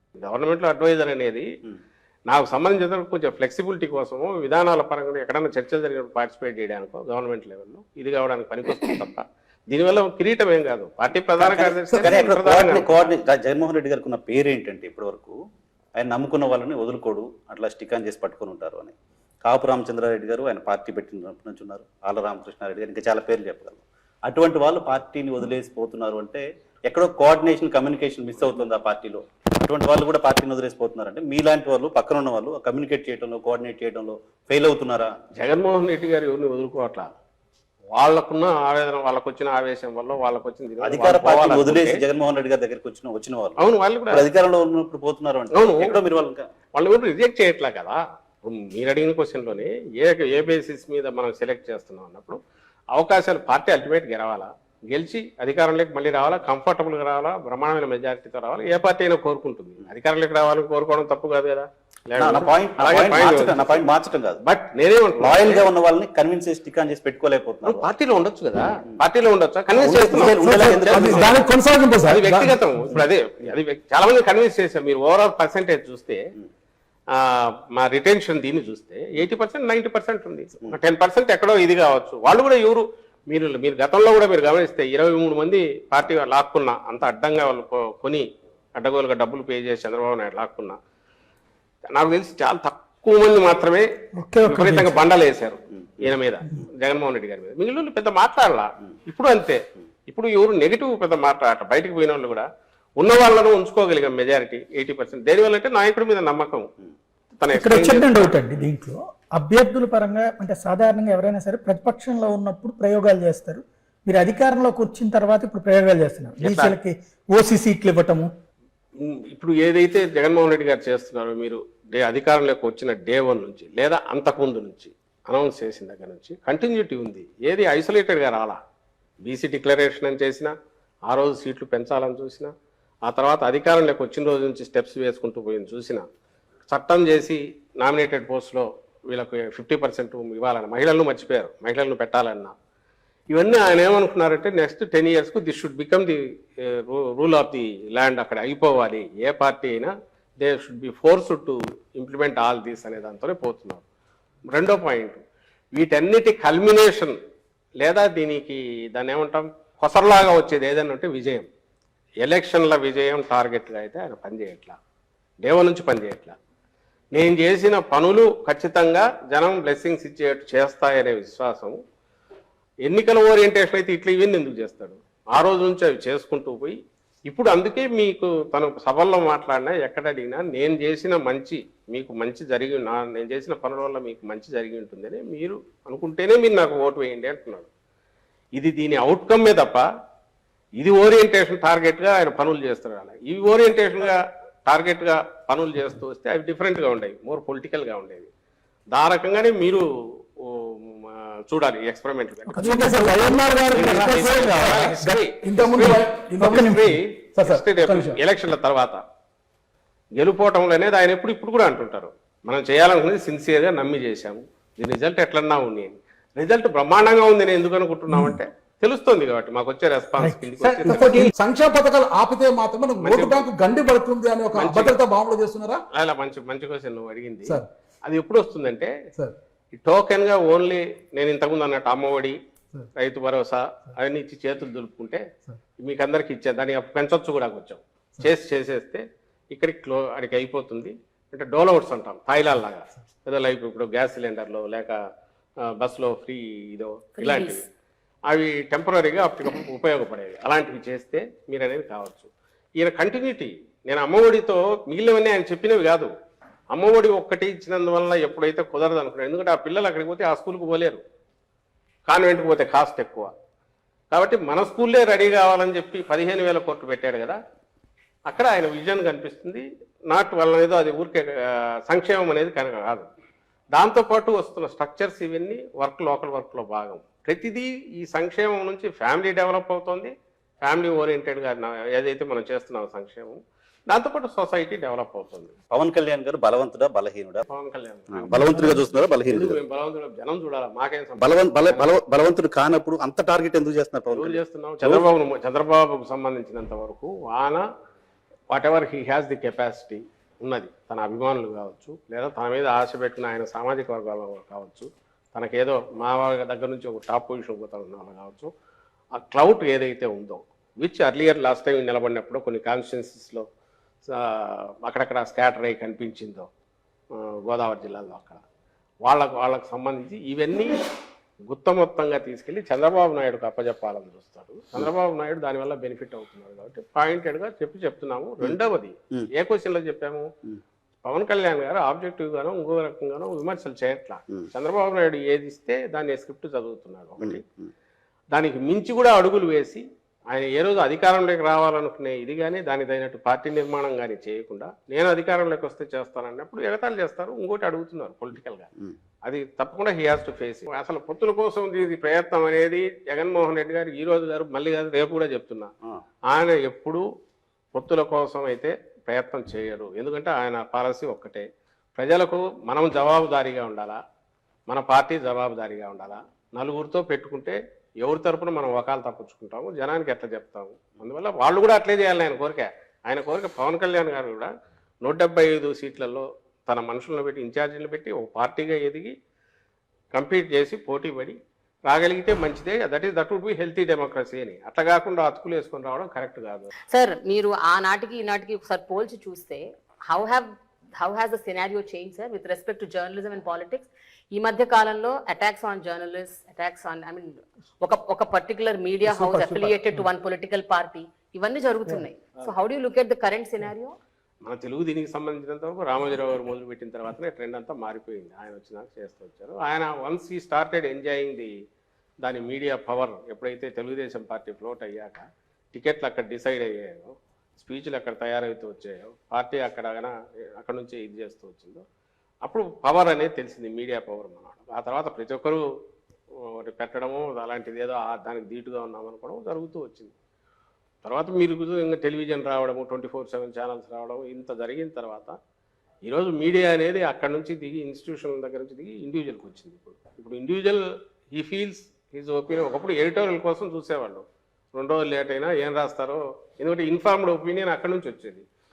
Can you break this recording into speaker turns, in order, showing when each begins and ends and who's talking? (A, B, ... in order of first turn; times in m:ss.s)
0:00.2-0:01.5 A
0:02.3-0:13.1 A
0:11.4-0:15.4 B
0:16.0-0:18.9 B
0:19.4-0:35.1 B
0:35.4-0:37.1 A
0:37.9-0:42.0 A
0:40.8-0:46.4 B
0:43.6-0:44.2 A
0:45.5-0:46.0 A
0:46.7-0:52.4 A
0:52.9-1:03.9 A
1:02.2-1:04.4 B
1:04.4-1:05.6 A
1:05.2-1:07.9 B
1:07.6-1:11.4 A
1:09.8-1:11.4 B
1:09.8-1:12.6 C
1:12.1-1:16.2 A
1:17.1-1:28.2 A
1:28.8-1:30.8 A
1:31.9-1:33.9 A
1:34.2-1:35.0 D
1:34.4-1:42.5 A
1:43.0-1:46.7 A
1:47.4-1:48.3 A
1:47.5-1:58.3 D
1:56.4-1:56.8 A
1:59.0-2:08.6 A
2:09.2-2:10.5 A
2:11.1-2:12.5 A
2:13.0-2:16.0 A
2:16.7-2:22.5 A
2:23.3-2:33.8 A
2:34.5-2:35.2 A
2:35.7-2:37.2 A
2:37.8-2:41.5 A
2:42.2-2:44.8 A
2:45.4-2:46.4 A
2:47.1-2:51.8 A
2:52.9-3:07.7 A
3:08.6-3:09.8 A
3:10.8-3:18.3 A
3:18.9-3:19.8 A
3:20.4-3:23.1 A
3:22.5-3:24.9 D
3:22.6-3:26.6 C
3:23.7-3:29.0 A
3:26.4-3:26.9 D
3:27.4-3:28.2 C
3:30.2-3:41.3 A
3:38.1-3:38.4 D
3:40.2-3:41.3 D
3:40.6-3:45.8 C
3:43.0-3:43.5 A
3:44.5-3:45.0 A
3:45.9-3:48.9 A
3:49.8-3:52.4 A
3:53.0-3:55.2 A
3:55.8-4:05.0 A
4:05.6-4:07.6 A
4:07.2-4:07.6 E
4:08.3-4:16.1 A
4:16.7-4:21.0 A
4:22.1-4:23.3 A
4:24.1-4:27.4 A
4:28.3-4:33.1 A
4:33.7-4:45.5 A
4:45.7-4:47.4 B
4:47.5-4:48.4 A
4:48.1-4:49.6 B
4:48.3-4:48.8 D
4:49.2-4:51.9 A
4:51.2-4:55.1 B
4:54.1-4:57.6 A
4:58.5-5:08.5 A
5:09.1-5:13.4 A
5:14.1-5:16.5 A
5:17.1-5:18.4 A
5:19.0-5:20.8 A
5:21.5-5:30.3 A
5:31.0-5:37.4 A
5:37.2-5:37.7 B
5:38.3-5:48.7 A
5:49.2-5:55.7 A
5:56.3-5:57.0 A
5:57.7-6:04.0 A
6:04.7-6:14.5 A
6:15.0-6:19.1 A
6:20.1-6:26.7 A
6:26.9-6:43.9 E
6:39.1-6:40.1 D
6:44.4-6:51.5 A
6:52.2-7:01.8 A
7:02.4-7:05.6 A
7:06.4-7:10.1 A
7:11.0-7:15.4 A
7:16.1-7:28.4 A